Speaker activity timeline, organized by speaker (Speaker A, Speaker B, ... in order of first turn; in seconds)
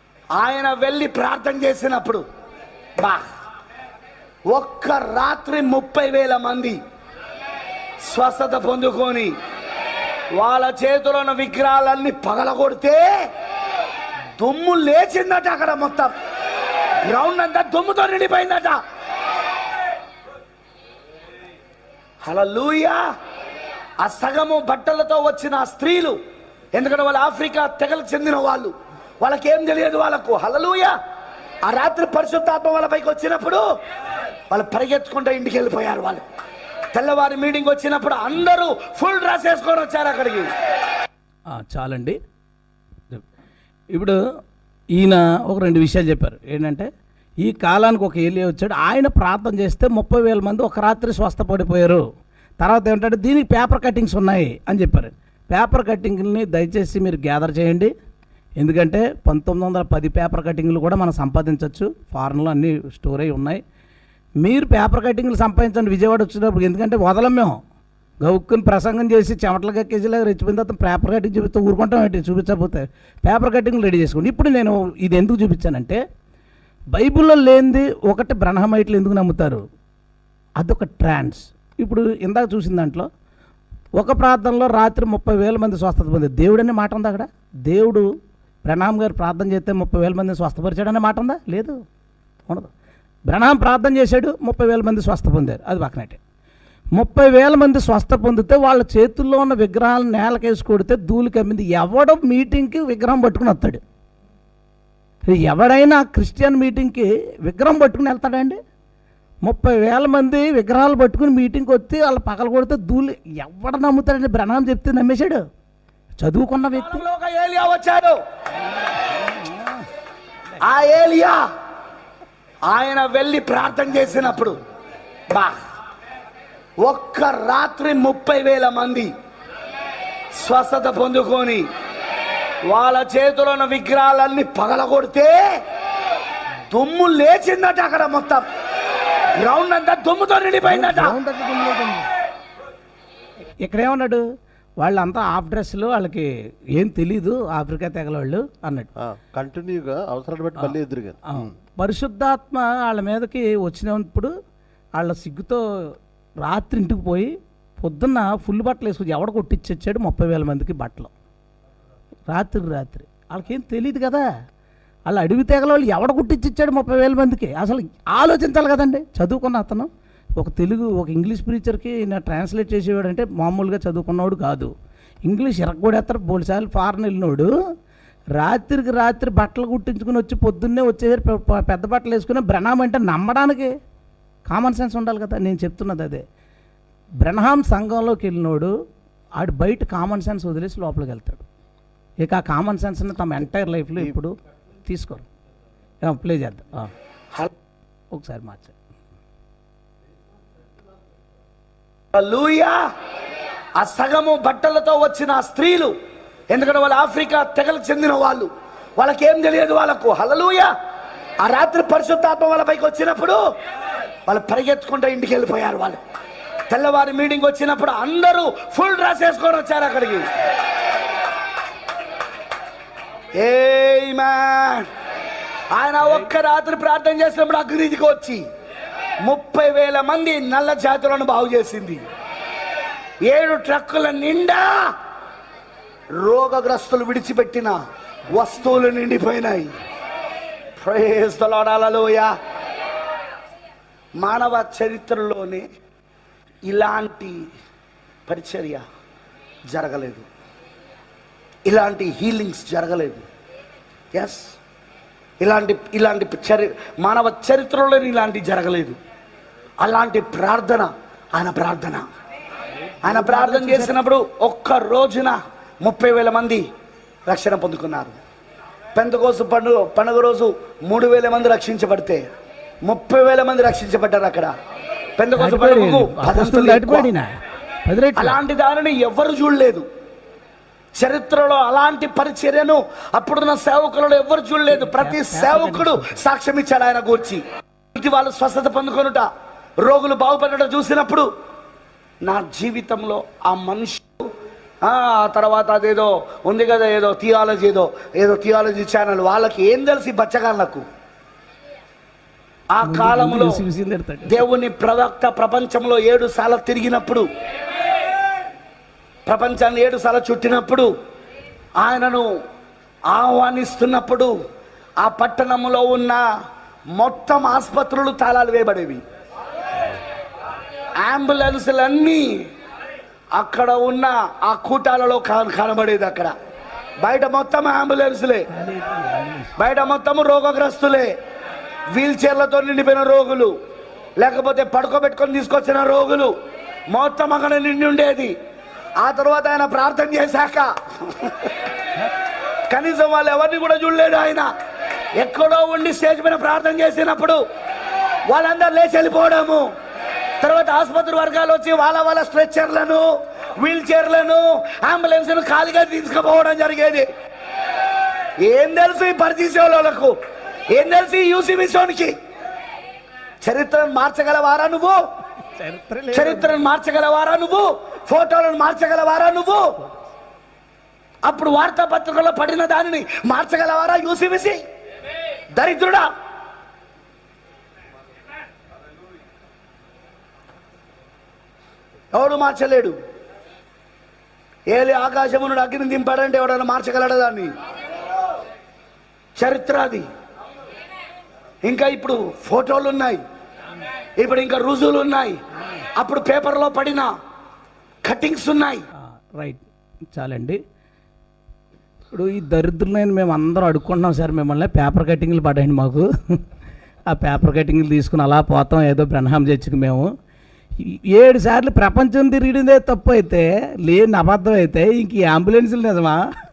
Speaker A: 0.3-2.2, 4.5-6.8, 8.0-9.3, 10.3-13.2, 14.4-16.1, 17.0-18.8, 22.2-23.0, 24.0-26.2, 26.7-30.9, 31.6-33.6, 34.5-36.2, 36.9-40.5, 116.7-118.2, 120.6-121.4, 122.7-124.6, 125.3-125.6, 126.8-129.1, 130.3-131.7, 132.7-135.4, 136.7-138.4, 139.4-141.2, 202.1-202.7, 203.8-205.9, 206.5-210.7, 211.4-213.4, 214.3-216.0, 216.7-220.3, 223.3-224.8, 225.7-228.4, 229.2-232.0, 233.2-234.9, 236.2-237.8, 238.3-239.7, 240.8-242.3, 244.2-245.6, 246.7-247.4, 248.3-248.8, 249.7-250.2, 251.7-253.2, 254.1-254.5, 255.4-259.0, 259.8-262.0, 263.0-266.6, 267.3-268.1, 268.9-272.2, 272.8-274.5, 275.2-277.1, 278.2-279.9, 281.0-287.4, 287.9-289.2, 289.8-291.3, 292.2-294.3, 294.8-300.8, 302.7-303.6, 304.3-307.2, 309.3-310.9, 311.8-312.2, 313.1-314.3, 315.0-316.2, 316.9-319.0, 321.0-322.4, 323.3-326.3, 327.0-328.5, 329.6-331.1, 331.9-333.5, 334.2-336.3, 336.9-338.3, 339.0-341.5, 342.7-344.5, 345.2-347.4, 348.3-349.6, 350.4-357.1, 358.4-360.1, 360.7-362.1, 363.4-365.0, 366.1-369.8, 371.2-374.6, 375.5-376.1, 382.1-382.9, 384.7-387.5, 389.4-390.0, 391.6-393.2, 394.2-395.4, 395.9-397.1, 398.0-398.8
Speaker B: 41.5-42.2, 44.9-46.9, 47.4-52.0, 52.6-57.9, 58.6-63.6, 64.4-67.6, 68.2-76.0, 76.9-79.6, 80.6-83.1, 84.0-88.1, 88.6-91.8, 93.3-96.2, 96.9-103.8, 105.3-108.6, 109.4-115.4, 116.2-117.0, 118.8-119.8, 140.6-142.1, 143.6-144.2, 144.8-148.9, 151.3-154.3, 155.0-155.6, 156.4-161.1, 162.3-164.3, 165.1-174.7, 175.2-177.5, 178.3-183.7, 184.5-186.2, 187.2-188.7, 189.4-191.4, 192.2-194.3, 194.8-195.2, 196.0-196.9, 198.1-198.7, 263.0-263.9, 275.4-277.2, 277.9-278.4, 284.7-286.2, 302.8-304.4, 328.5-329.5, 365.5-366.6, 398.9-400.6, 402.1-406.4, 407.1-410.1, 410.8-416.2
Speaker C: 149.0-151.5